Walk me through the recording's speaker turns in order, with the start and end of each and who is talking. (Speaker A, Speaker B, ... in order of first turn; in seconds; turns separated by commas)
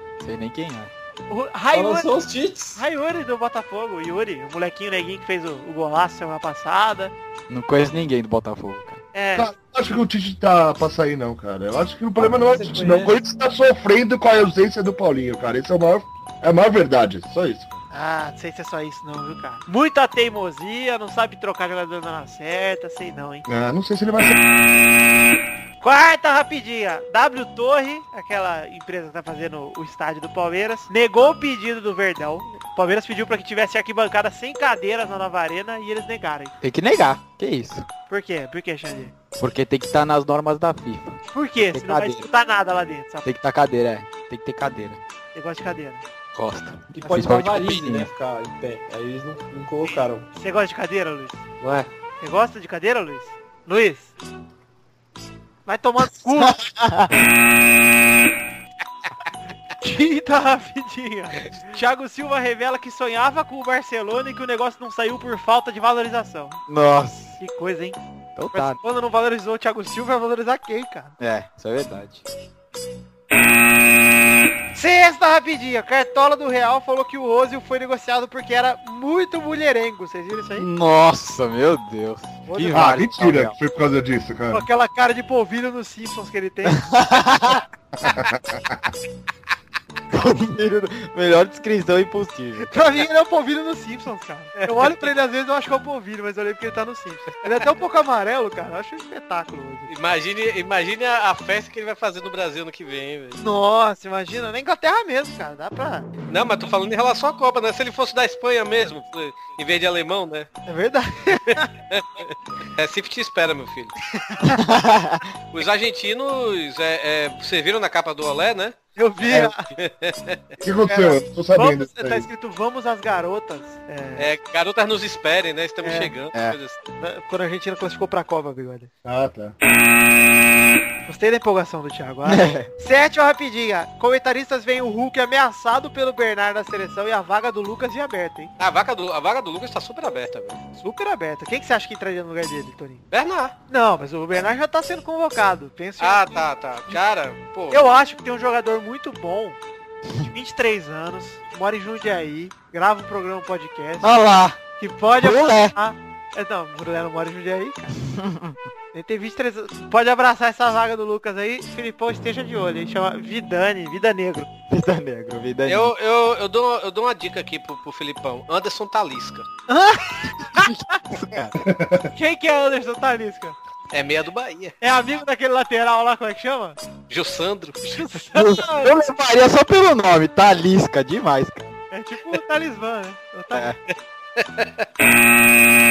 Speaker A: 0.2-0.9, Speaker B: 1.3-2.1, Speaker C: 1.7-2.8, Speaker B: 2.7-7.1, Speaker A: 7.5-9.0, Speaker B: 9.1-9.5, Speaker D: 9.3-17.8, Speaker C: 12.2-13.2, Speaker B: 17.9-23.4, Speaker D: 23.5-24.4, Speaker B: 25.8-36.5, Speaker A: 36.6-37.9, Speaker B: 38.1-39.1, Speaker A: 39.4-42.2, Speaker B: 41.3-43.3, Speaker A: 43.2-45.0, Speaker B: 45.3-46.0, Speaker A: 46.3-48.1, Speaker C: 46.9-50.3, Speaker B: 49.9-51.4, Speaker C: 51.6-51.9, Speaker B: 52.2-54.1, Speaker B: 55.6-56.6, Speaker A: 56.4-57.1, Speaker B: 59.8-66.6, Speaker A: 66.7-67.3, Speaker B: 67.4-68.0, Speaker A: 68.3-68.8, Speaker B: 68.5-71.1, Speaker A: 71.2-72.2, Speaker B: 74.7-80.7, Speaker A: 80.5-83.5, Speaker B: 82.5-83.0, Speaker D: 82.7-84.7, Speaker B: 84.5-86.9, Speaker A: 86.7-87.6, Speaker D: 88.0-88.9, Speaker A: 90.1-92.8, Speaker B: 92.6-99.9, Speaker E: 99.9-103.4, Speaker B: 103.4-106.1, Speaker E: 106.3-110.5, Speaker B: 110.7-111.7, Speaker E: 111.9-113.9, Speaker B: 114.4-114.7, Speaker A: 114.5-115.2, Speaker E: 115.5-118.8, Speaker B: 119.0-119.7, Speaker E: 119.7-120.4, Speaker D: 120.6-122.3, Speaker B: 120.9-124.3, Speaker E: 124.2-126.8, Speaker B: 125.8-126.1, Speaker B: 127.0-128.9, Speaker D: 129.0-129.5, Speaker B: 131.1-138.5, Speaker A: 132.2-132.7, Speaker E: 138.6-140.6, Speaker B: 140.8-143.0, Speaker E: 143.1-143.5, Speaker B: 143.7-147.0, Speaker E: 146.0-147.8, Speaker B: 147.7-149.6, Speaker B: 150.3-154.1, Speaker A: 154.0-154.6, Speaker B: 154.8-157.9, Speaker A: 155.2-155.7, Speaker A: 158.1-158.6, Speaker B: 158.9-164.5, Speaker A: 164.7-165.9, Speaker E: 165.7-169.5, Speaker B: 169.7-170.7, Speaker A: 170.5-171.5, Speaker D: 171.6-172.1, Speaker B: 172.1-173.6, Speaker E: 173.9-174.7, Speaker B: 174.8-176.8, Speaker E: 177.1-178.0, Speaker B: 177.9-179.0, Speaker A: 178.3-181.7, Speaker B: 181.9-183.7, Speaker A: 183.5-183.8, Speaker E: 184.4-184.8